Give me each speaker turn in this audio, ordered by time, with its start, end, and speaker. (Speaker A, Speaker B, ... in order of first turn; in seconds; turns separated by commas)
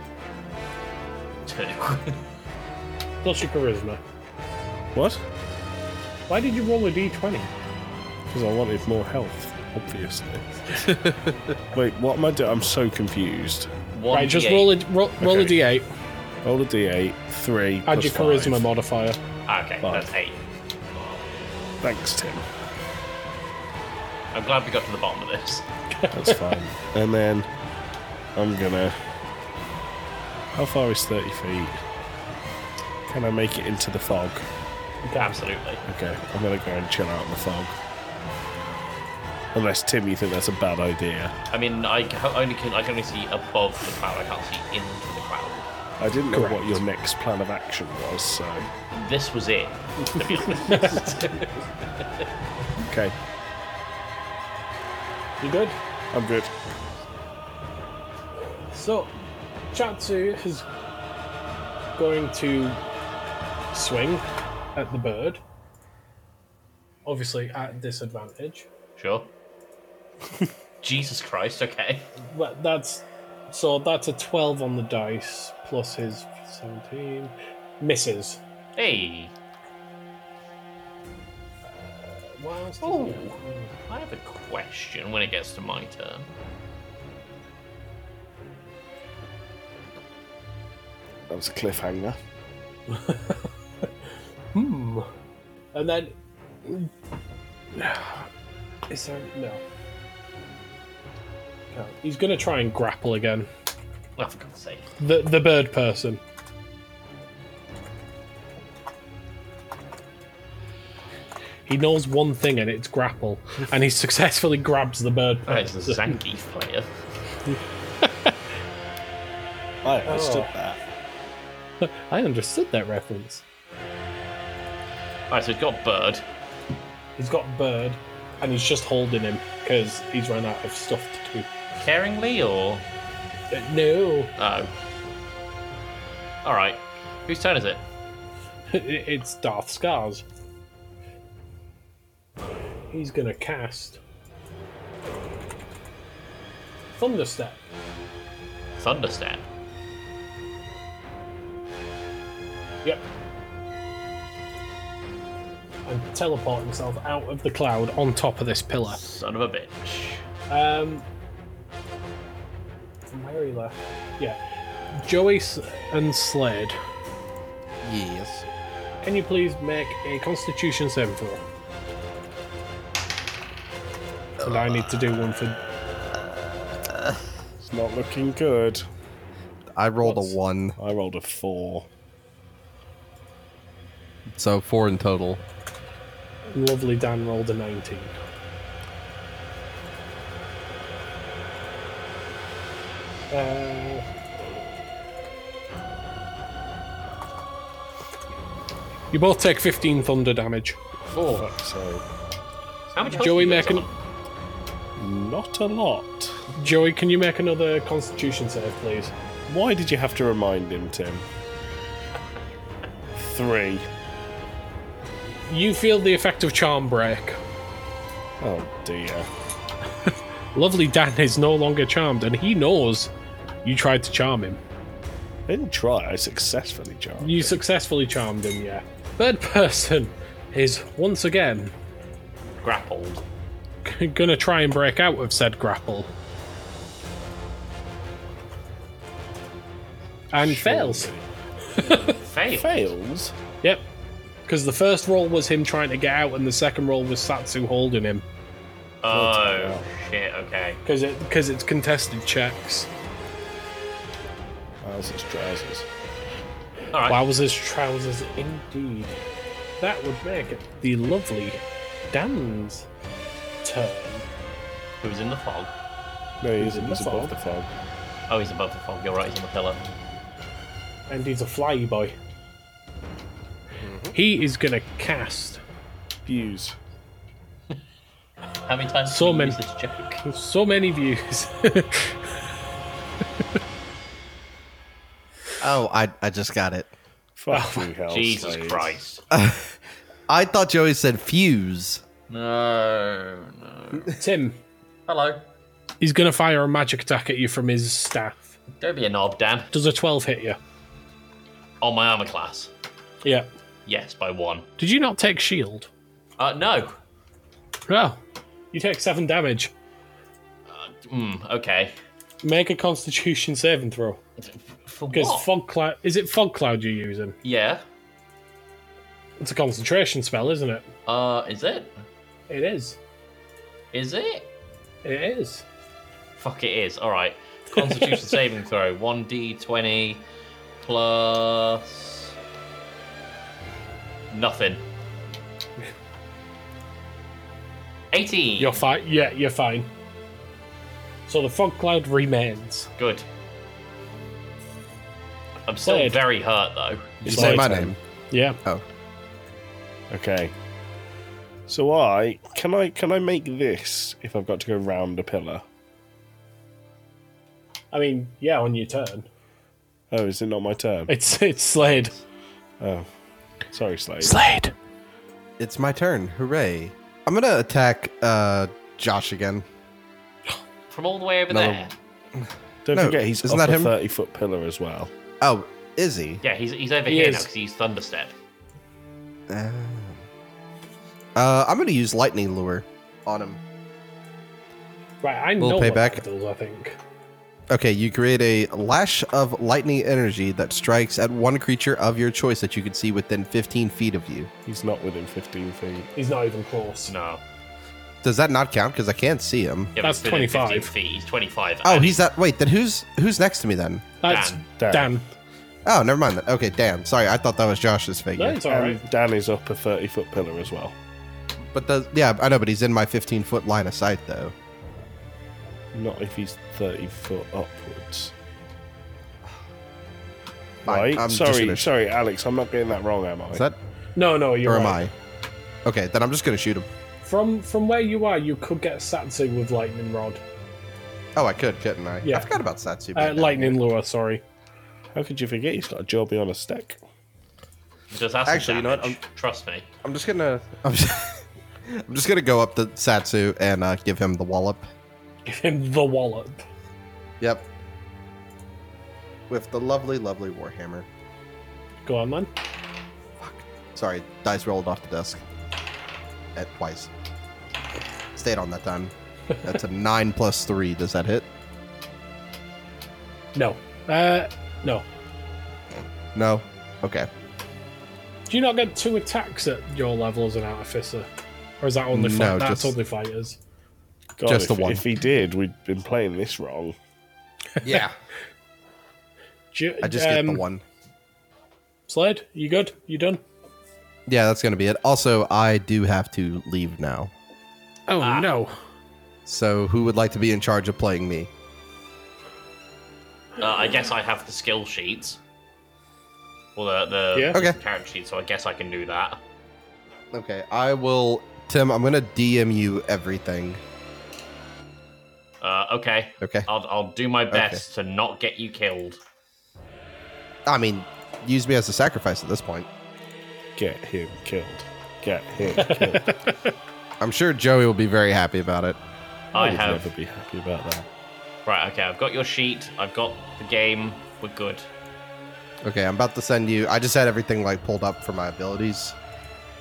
Speaker A: 1.4-2.2, Speaker B: 3.2-4.0, Speaker C: 4.9-5.2, Speaker B: 6.3-7.5, Speaker C: 8.3-10.9, Speaker C: 11.7-13.7, Speaker A: 13.9-14.8, Speaker B: 14.1-15.9, Speaker C: 15.2-15.5, Speaker C: 16.4-18.7, Speaker B: 17.9-19.2, Speaker A: 19.5-21.2, Speaker C: 19.8-20.1, Speaker C: 21.8-22.4, Speaker A: 24.3-25.7, Speaker B: 26.0-26.4, Speaker C: 26.1-27.5, Speaker C: 28.4-29.0, Speaker C: 30.5-31.8, Speaker C: 33.1-34.5, Speaker B: 35.0-35.4, Speaker A: 35.2-35.8, Speaker C: 35.9-37.7, Speaker C: 39.5-41.3, Speaker A: 41.5-45.6, Speaker C: 46.0-48.7, Speaker B: 46.3-46.8, Speaker A: 48.9-51.5, Speaker B: 50.5-51.2, Speaker C: 52.8-53.1, Speaker B: 55.4-55.8, Speaker C: 56.1-56.5, Speaker B: 58.7-59.1, Speaker B: 59.7-60.6, Speaker B: 62.0-62.8, Speaker B: 63.7-65.4, Speaker B: 67.0-68.7, Speaker A: 69.0-69.3, Speaker A: 70.8-72.1, Speaker B: 72.2-78.4, Speaker A: 78.8-79.3, Speaker B: 81.7-83.7, Speaker A: 82.8-86.3, Speaker C: 91.3-92.2, Speaker B: 92.9-93.9, Speaker B: 94.5-95.1, Speaker B: 95.7-96.1, Speaker B: 96.6-96.9, Speaker B: 97.7-98.3, Speaker B: 98.9-99.6, Speaker B: 101.7-103.5, Speaker A: 104.2-104.9, Speaker B: 105.0-106.2, Speaker B: 111.7-116.2, Speaker A: 115.5-116.9, Speaker B: 117.5-118.4, Speaker C: 119.8-120.8, Speaker B: 120.0-120.5, Speaker B: 121.8-123.4, Speaker A: 125.3-126.2, Speaker B: 127.2-131.5, Speaker A: 131.8-132.8, Speaker B: 133.5-134.3, Speaker A: 134.4-134.7, Speaker A: 136.4-137.8, Speaker B: 138.7-140.2, Speaker B: 142.9-144.0, Speaker B: 146.9-147.6, Speaker A: 148.8-149.4, Speaker B: 155.8-159.0, Speaker A: 158.8-160.2, Speaker B: 160.5-161.0, Speaker B: 163.1-164.4, Speaker B: 165.0-166.8, Speaker D: 167.8-168.4, Speaker B: 169.0-171.4, Speaker B: 174.4-175.6, Speaker C: 177.6-178.8, Speaker D: 179.8-180.8, Speaker C: 180.8-181.8, Speaker D: 184.3-185.4, Speaker B: 186.5-188.1, Speaker B: 193.3-194.1, Speaker B: 199.1-200.8, Speaker A: 201.1-201.5, Speaker C: 201.3-202.0, Speaker A: 202.9-203.9, Speaker B: 203.0-203.9, Speaker C: 205.0-206.3, Speaker B: 206.6-209.1, Speaker C: 209.5-211.2, Speaker C: 213.1-213.8, Speaker B: 215.5-217.4, Speaker C: 218.4-219.3, Speaker B: 220.1-223.1, Speaker B: 223.6-224.6, Speaker C: 225.5-227.6, Speaker B: 227.2-231.7, Speaker A: 232.6-233.2, Speaker B: 233.8-236.1, Speaker B: 240.3-241.1, Speaker C: 240.3-241.2, Speaker B: 241.8-242.1, Speaker A: 241.8-242.9, Speaker C: 242.5-243.3, Speaker B: 244.5-248.2, Speaker A: 249.0-250.8, Speaker C: 249.1-249.8, Speaker B: 250.8-252.9, Speaker C: 254.8-255.8, Speaker A: 256.9-257.2, Speaker B: 257.1-259.1, Speaker B: 259.8-261.6, Speaker B: 262.1-262.9, Speaker B: 263.6-264.2, Speaker A: 265.0-265.7, Speaker C: 266.4-267.7, Speaker B: 266.6-267.3, Speaker A: 268.3-269.8, Speaker B: 271.1-272.1, Speaker D: 273.8-274.1, Speaker B: 274.1-275.6, Speaker C: 276.2-276.8, Speaker A: 278.6-280.2, Speaker B: 279.1-279.6, Speaker B: 280.2-282.3, Speaker D: 285.6-286.9, Speaker C: 287.4-288.9, Speaker B: 287.5-287.9, Speaker A: 288.1-289.2, Speaker D: 289.3-289.8, Speaker D: 290.3-292.0, Speaker A: 292.3-294.1, Speaker B: 294.1-294.6, Speaker A: 295.1-295.4, Speaker B: 296.0-298.5, Speaker A: 298.8-299.7, Speaker B: 299.7-300.6, Speaker A: 301.8-302.7, Speaker B: 303.2-303.5, Speaker A: 303.9-304.7, Speaker B: 304.8-305.9, Speaker A: 306.4-307.0, Speaker B: 307.9-308.2, Speaker B: 308.7-309.7, Speaker A: 310.7-312.0, Speaker B: 312.4-314.2, Speaker A: 314.4-315.5, Speaker B: 315.1-317.4, Speaker A: 317.4-317.8, Speaker B: 319.4-320.9, Speaker A: 321.1-321.9, Speaker B: 322.5-323.0, Speaker A: 323.9-324.5, Speaker B: 325.0-325.6, Speaker A: 326.4-330.2, Speaker B: 327.8-328.2, Speaker A: 330.8-332.3, Speaker A: 334.3-334.8, Speaker A: 338.1-338.8, Speaker B: 338.6-339.9, Speaker B: 341.3-342.9, Speaker A: 343.0-343.3, Speaker A: 345.7-347.3, Speaker B: 345.8-346.2, Speaker C: 347.2-347.9, Speaker D: 347.2-348.0, Speaker B: 347.3-348.6, Speaker C: 350.1-350.5, Speaker C: 351.7-355.6, Speaker B: 357.9-359.3, Speaker C: 360.1-361.1, Speaker B: 361.1-362.1, Speaker A: 361.9-362.2, Speaker C: 362.8-363.1, Speaker C: 363.7-364.4, Speaker B: 364.2-364.7, Speaker D: 365.6-369.6, Speaker A: 370.9-371.9, Speaker D: 371.5-371.8, Speaker D: 372.4-373.9, Speaker C: 372.8-375.1, Speaker D: 375.4-376.4, Speaker A: 376.4-378.3, Speaker B: 377.1-377.5, Speaker D: 379.5-380.2, Speaker D: 381.4-383.6, Speaker B: 385.2-387.0, Speaker D: 385.6-386.2, Speaker D: 387.7-394.5, Speaker C: 394.6-396.1, Speaker B: 396.1-397.1, Speaker A: 397.1-397.4, Speaker D: 398.2-399.9, Speaker A: 399.9-402.2, Speaker B: 400.0-400.9, Speaker D: 401.8-404.0, Speaker B: 404.2-405.2, Speaker A: 404.3-404.6, Speaker C: 404.8-405.1, Speaker D: 405.8-408.6, Speaker B: 408.4-409.0, Speaker C: 408.7-410.9, Speaker D: 411.7-414.5, Speaker C: 415.9-418.3, Speaker D: 420.8-421.9, Speaker C: 420.9-423.6, Speaker D: 423.5-423.8, Speaker B: 424.1-425.0, Speaker D: 424.6-425.1, Speaker D: 425.8-426.9, Speaker B: 427.2-430.4, Speaker D: 431.4-433.8, Speaker B: 432.2-432.6, Speaker B: 433.1-434.4, Speaker C: 435.1-437.0, Speaker A: 438.1-439.9, Speaker D: 438.4-439.2, Speaker D: 440.0-444.9, Speaker B: 445.4-446.6, Speaker D: 447.4-447.6, Speaker D: 449.5-451.1, Speaker B: 452.0-452.5, Speaker D: 453.4-455.4, Speaker D: 456.5-457.1, Speaker D: 458.3-461.5, Speaker B: 463.5-465.0, Speaker D: 466.3-467.3, Speaker B: 468.5-471.3, Speaker B: 471.8-473.6, Speaker D: 472.1-472.9, Speaker C: 474.4-476.9, Speaker D: 474.4-475.1, Speaker B: 477.8-478.0, Speaker D: 477.8-478.1, Speaker B: 479.7-480.6, Speaker D: 480.0-480.8, Speaker B: 482.1-483.4, Speaker D: 484.3-487.3, Speaker B: 488.1-488.7, Speaker A: 488.2-488.5, Speaker D: 489.4-491.5, Speaker A: 493.6-495.4, Speaker A: 496.8-499.4, Speaker D: 497.5-497.8, Speaker D: 500.3-503.8, Speaker A: 505.6-509.2, Speaker D: 506.4-506.7, Speaker D: 507.5-507.8, Speaker D: 510.6-512.9, Speaker C: 513.8-516.3, Speaker B: 515.8-516.5, Speaker D: 517.2-519.0, Speaker A: 519.5-520.1, Speaker C: 519.5-521.1, Speaker A: 521.6-524.9, Speaker D: 525.8-529.1